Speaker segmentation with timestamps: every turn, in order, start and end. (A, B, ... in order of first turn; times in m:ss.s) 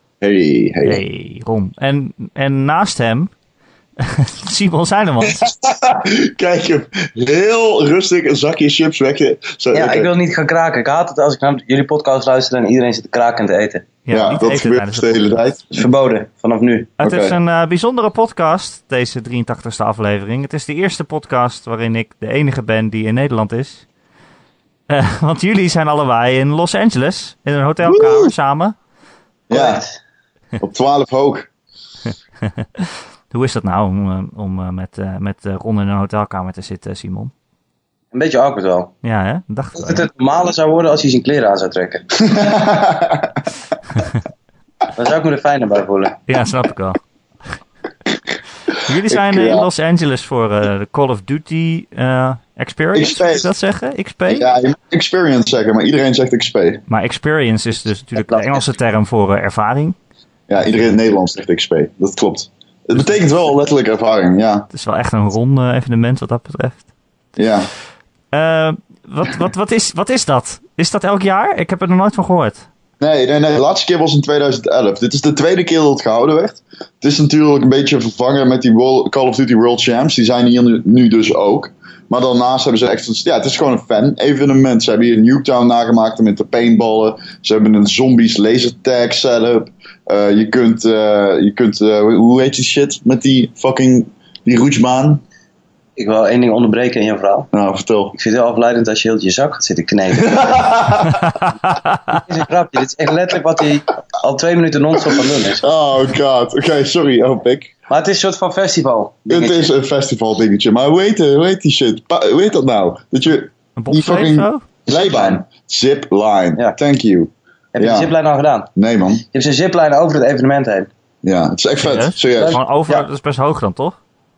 0:00.2-0:01.0 A
0:00.8-0:03.3 B
0:04.0-0:05.5 B
0:05.3-0:10.1 A
0:09.7-0:13.8 C
0:14.0-0:15.4 B
0:14.1-0:15.7 A
0:15.7-0:16.9 C
0:17.0-0:23.8 B
0:17.0-0:17.4 A
0:24.9-0:28.7 B
0:27.8-0:28.3 A
0:29.5-0:29.8 A
0:29.5-0:30.0 C
0:30.6-0:31.5 A
0:32.6-0:37.3 B
0:38.1-0:38.9 C
0:39.0-0:40.0 B
0:39.7-0:42.1 C
0:42.2-0:43.4 A
0:44.9-0:46.2 C
0:46.3-0:47.0 B
0:48.7-0:54.5 B
0:49.1-0:49.7 A
0:52.9-0:53.5 A
0:54.3-0:56.8 A
0:56.9-1:00.0 B
1:00.5-1:04.7 A
1:04.7-1:06.8 B
1:07.4-1:07.7 A
1:08.3-1:12.6 B
1:13.0-1:35.2 A
1:36.0-1:37.5 C
1:37.5-1:38.1 A
1:38.1-1:40.8 C
1:40.2-1:41.3 A
1:42.1-1:45.6 C
1:45.1-1:47.7 A
1:47.9-1:49.7 C
1:49.3-1:58.1 A
1:53.8-1:54.6 B
1:54.9-1:55.4 C
1:57.7-1:58.7 C
1:58.8-1:59.2 A
1:59.2-2:00.9 C
2:01.2-2:02.6 A
2:01.8-2:04.0 B
2:02.3-2:03.0 C